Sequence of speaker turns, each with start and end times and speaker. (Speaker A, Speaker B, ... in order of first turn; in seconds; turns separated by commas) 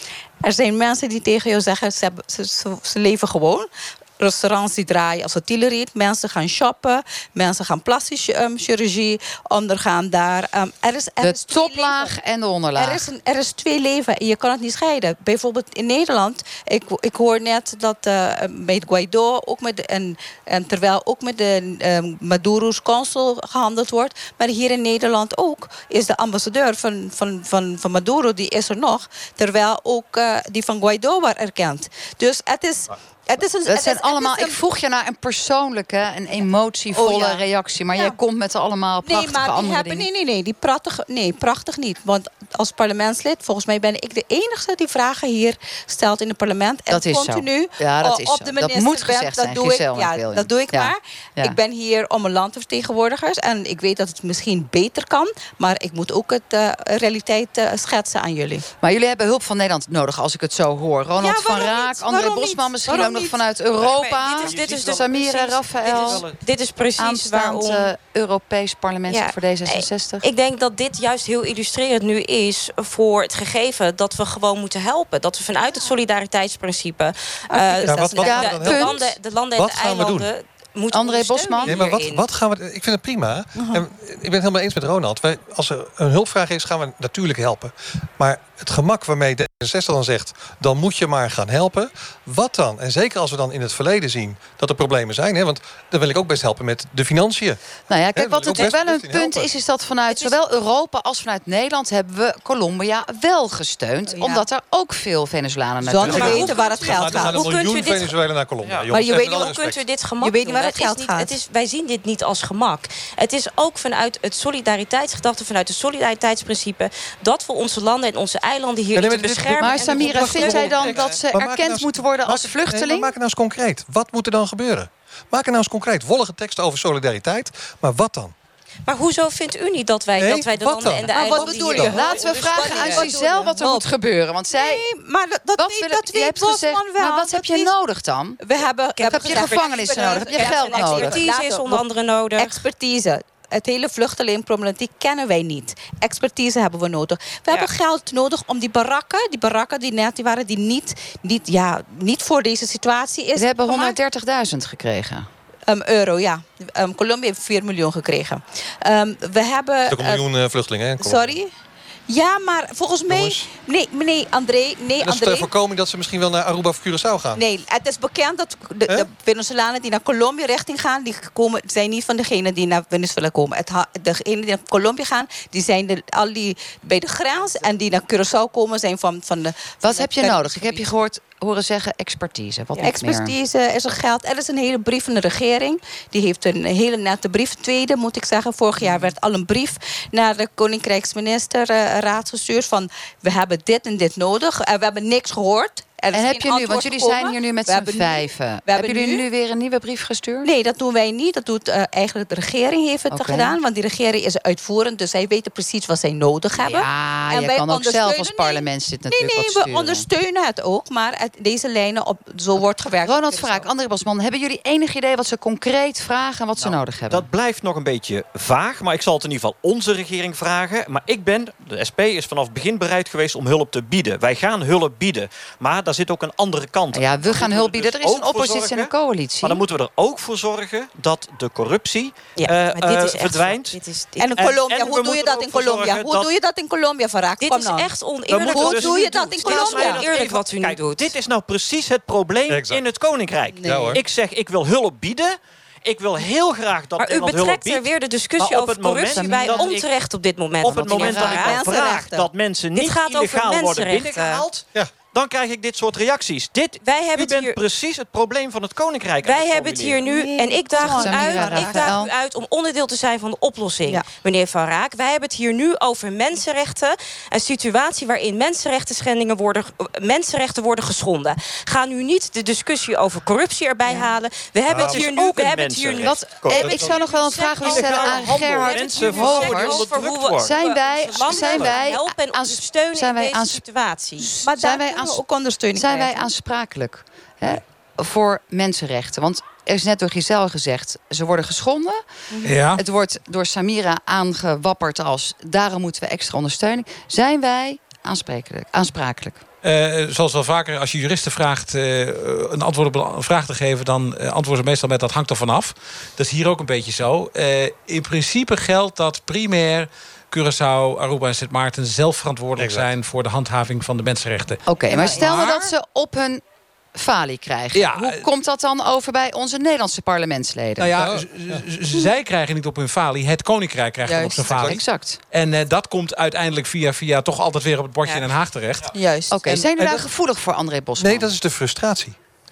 Speaker A: 0.4-12.1, Speaker B: 11.2-13.1, Speaker A: 12.8-34.6, Speaker B: 33.7-40.1, Speaker A: 36.9-37.4, Speaker A: 39.0-58.6, Speaker B: 46.9-51.5, Speaker B: 58.8-66.2, Speaker A: 61.2-63.4, Speaker C: 63.8-66.4, Speaker D: 63.8-67.9, Speaker B: 67.0-70.2, Speaker D: 69.1-82.2, Speaker A: 77.5-78.2, Speaker E: 77.8-80.3, Speaker B: 78.2-79.0, Speaker B: 80.9-81.8, Speaker E: 81.7-97.6, Speaker A: 83.5-83.8, Speaker B: 97.9-106.6, Speaker E: 98.1-99.5, Speaker A: 104.1-104.5, Speaker A: 105.8-107.4, Speaker E: 106.0-109.8, Speaker D: 106.1-108.2, Speaker A: 108.9-109.5, Speaker D: 108.9-121.0, Speaker A: 110.2-111.3, Speaker E: 118.9-128.3, Speaker B: 119.6-123.1, Speaker D: 128.9-133.0, Speaker E: 130.1-131.3, Speaker A: 131.1-133.9, Speaker B: 131.4-134.8, Speaker A: 134.5-137.7, Speaker B: 135.6-138.4, Speaker A: 138.4-141.8, Speaker D: 139.0-142.6, Speaker B: 139.1-141.2, Speaker A: 142.4-154.0, Speaker B: 153.3-155.3, Speaker A: 155.7-160.2, Speaker E: 159.9-161.4, Speaker A: 161.0-161.5, Speaker A: 162.1-165.5, Speaker E: 163.1-163.4, Speaker E: 165.0-167.4, Speaker A: 167.3-180.9, Speaker B: 179.8-183.3, Speaker A: 182.8-199.2, Speaker B: 196.1-200.5, Speaker A: 200.4-213.6, Speaker B: 203.1-203.6, Speaker B: 206.6-210.1, Speaker B: 213.0-217.2, Speaker C: 216.6-228.9, Speaker B: 226.9-229.6, Speaker C: 229.4-233.8, Speaker D: 232.4-234.3, Speaker A: 234.2-237.9, Speaker C: 234.4-236.3, Speaker D: 237.4-241.1, Speaker C: 238.3-249.9, Speaker A: 238.4-240.0, Speaker E: 242.5-242.8, Speaker A: 243.5-244.0, Speaker E: 243.6-244.0, Speaker D: 247.0-251.6, Speaker B: 249.1-249.7, Speaker C: 250.6-260.0, Speaker B: 250.7-251.4, Speaker A: 251.3-252.3, Speaker D: 252.7-254.4, Speaker D: 256.8-257.6, Speaker D: 259.2-284.4, Speaker A: 260.1-261.9, Speaker B: 260.8-262.1, Speaker E: 274.7-275.1, Speaker C: 274.7-277.1, Speaker B: 276.0-283.6, Speaker E: 276.6-277.0, Speaker C: 277.6-281.8, Speaker A: 284.4-286.3, Speaker B: 284.4-285.2, Speaker B: 285.7-292.0, Speaker F: 292.4-292.8, Speaker B: 292.7-299.4, Speaker F: 299.6-315.7, Speaker E: 312.6-312.9, Speaker B: 314.6-316.4, Speaker A: 314.9-315.3, Speaker B: 316.9-320.9, Speaker F: 317.7-318.3, Speaker F: 320.8-328.9, Speaker E: 321.0-321.6, Speaker A: 324.1-324.4, Speaker E: 324.4-324.8, Speaker B: 324.5-325.2, Speaker A: 328.9-330.0, Speaker B: 329.3-331.3, Speaker E: 331.0-332.1